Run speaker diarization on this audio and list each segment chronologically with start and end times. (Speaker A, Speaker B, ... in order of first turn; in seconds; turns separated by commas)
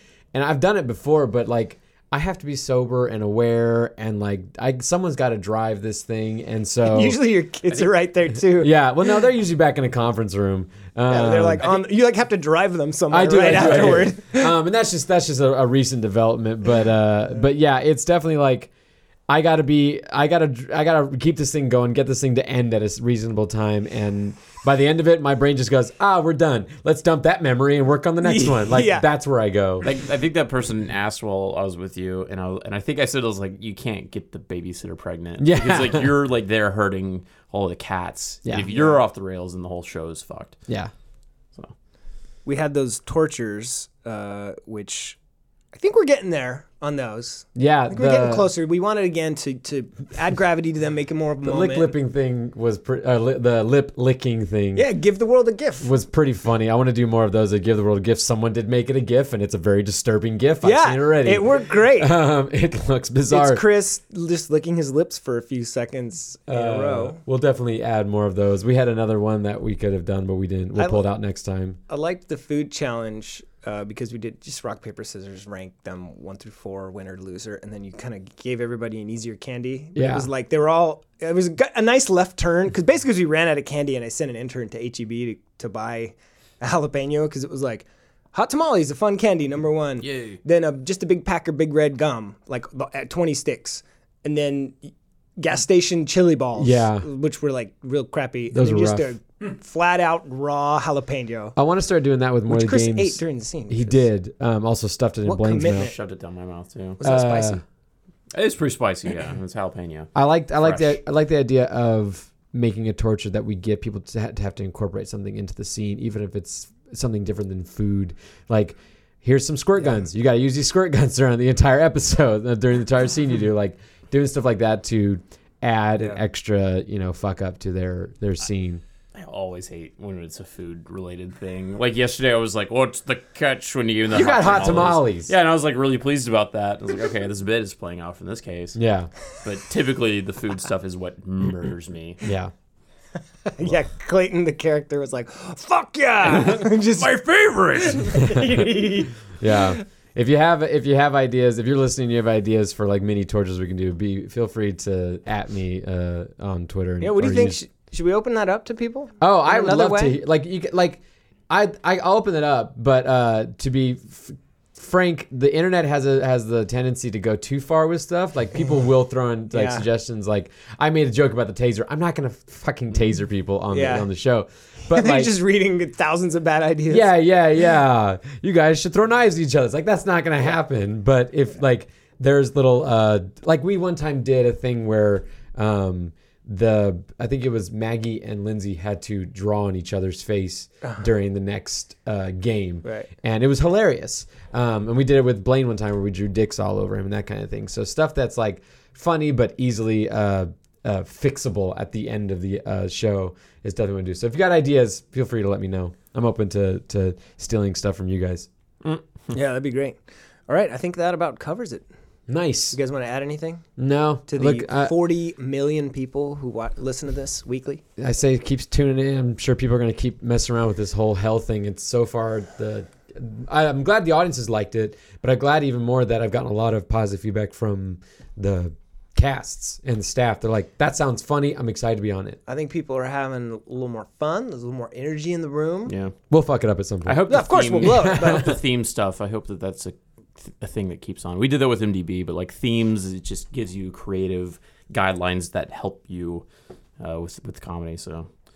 Speaker A: 0.3-7.2, Speaker B: 6.9-8.7, Speaker A: 8.6-11.8, Speaker B: 11.1-14.6, Speaker A: 13.1-18.7, Speaker A: 19.3-29.9, Speaker B: 28.2-29.1, Speaker C: 29.8-40.6, Speaker A: 35.4-36.1, Speaker B: 38.7-39.0, Speaker B: 42.5-45.2, Speaker B: 45.7-51.9, Speaker A: 47.6-48.5, Speaker A: 51.4-54.9, Speaker B: 54.8-55.9, Speaker A: 55.8-63.6, Speaker B: 60.6-62.2, Speaker B: 63.3-67.2, Speaker A: 66.5-71.8, Speaker B: 70.8-71.0, Speaker B: 71.9-101.5, Speaker A: 80.0-80.3, Speaker C: 90.1-90.4, Speaker A: 96.6-97.1, Speaker A: 98.5-99.2, Speaker A: 101.6-105.9, Speaker B: 102.5-104.0, Speaker B: 105.2-106.0, Speaker C: 105.8-107.0, Speaker B: 107.0-107.6, Speaker A: 107.0-107.6, Speaker C: 108.3-111.0, Speaker A: 110.2-128.8, Speaker C: 129.1-138.8, Speaker A: 134.1-135.3, Speaker A: 138.8-139.1, Speaker C: 139.4-142.2, Speaker A: 142.2-142.5, Speaker B: 143.5-147.2, Speaker C: 146.3-147.9, Speaker B: 147.7-149.8, Speaker A: 148.2-148.7, Speaker A: 149.4-157.6, Speaker B: 157.0-160.2, Speaker A: 159.2-175.3, Speaker B: 169.5-169.8, Speaker B: 173.7-174.1, Speaker B: 174.9-177.1, Speaker A: 176.9-208.5, Speaker B: 192.8-193.1, Speaker B: 209.3-211.8, Speaker A: 212.3-212.8, Speaker B: 212.7-213.7, Speaker A: 213.8-214.9, Speaker B: 214.3-217.8, Speaker A: 218.0-232.4, Speaker B: 232.5-235.9, Speaker C: 235.9-236.1, Speaker A: 236.3-238.6, Speaker C: 237.1-246.5, Speaker B: 237.3-238.5, Speaker C: 247.0-248.3